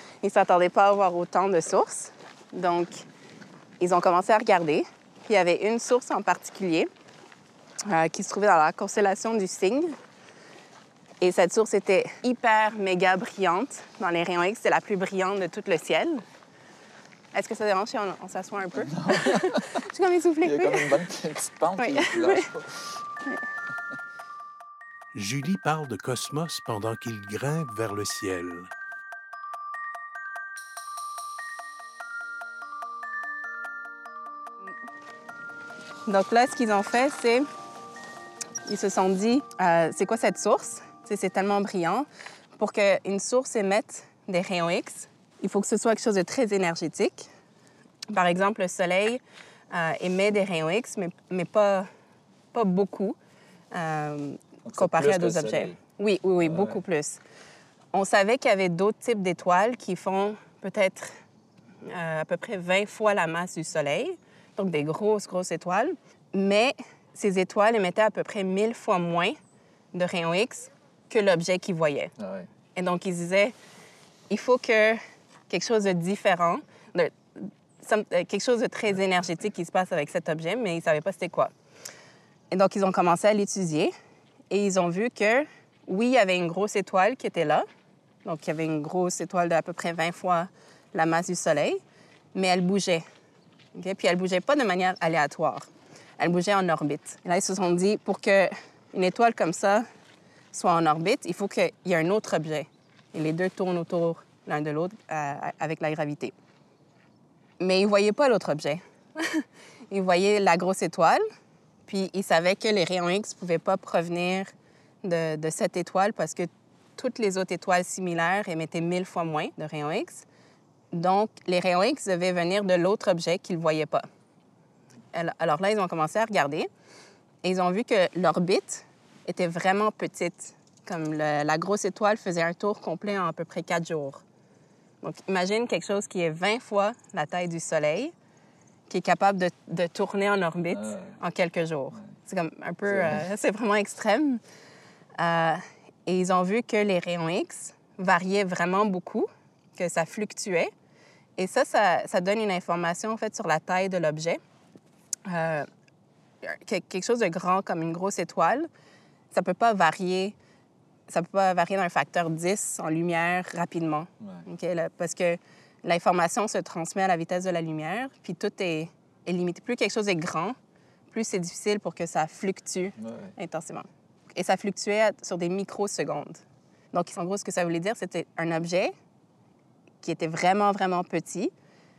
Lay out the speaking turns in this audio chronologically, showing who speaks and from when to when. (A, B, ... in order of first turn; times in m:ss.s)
0:00.2-0:02.9 A
0:03.8-0:06.9 A
0:07.8-0:10.0 A
0:11.2-0:16.2 A
0:17.3-0:21.0 A
0:18.8-0:19.7 B
0:20.4-0:22.9 B
0:21.8-0:22.5 A
0:25.1-0:28.7 C
0:36.1-0:37.5 A
0:38.7-0:42.1 A
0:42.6-0:47.3 A
0:48.1-0:51.9 A
0:52.5-0:53.2 A
0:53.7-0:57.2 A
0:54.7-0:55.8 B
0:56.4-0:56.8 B
0:57.9-1:01.2 A
1:01.8-1:09.4 A
1:09.9-1:12.1 A
1:12.2-1:12.5 B
1:12.8-1:13.5 A
1:14.3-1:21.5 A
1:22.5-1:23.9 A
1:24.5-1:27.7 A
1:28.2-1:31.8 A
1:32.3-1:33.0 A
1:33.8-1:39.9 A
1:40.5-1:46.3 A
1:47.6-1:51.2 A
1:51.9-1:54.5 A
1:55.0-2:00.3 A
2:00.9-2:04.1 A
2:05.1-2:06.7 A
2:07.4-2:14.2 A
2:15.0-2:18.1 A
2:18.9-2:24.4 A
2:20.7-2:21.2 B
2:22.9-2:23.2 B
2:25.2-2:30.7 A
2:31.4-2:34.4 A
2:35.3-2:35.7 A
2:36.4-2:38.7 A
2:39.3-2:40.4 A
2:41.1-2:50.6 A
2:44.2-2:44.4 B
2:51.1-2:58.9 A
2:53.0-2:53.4 B
3:00.0-3:01.5 A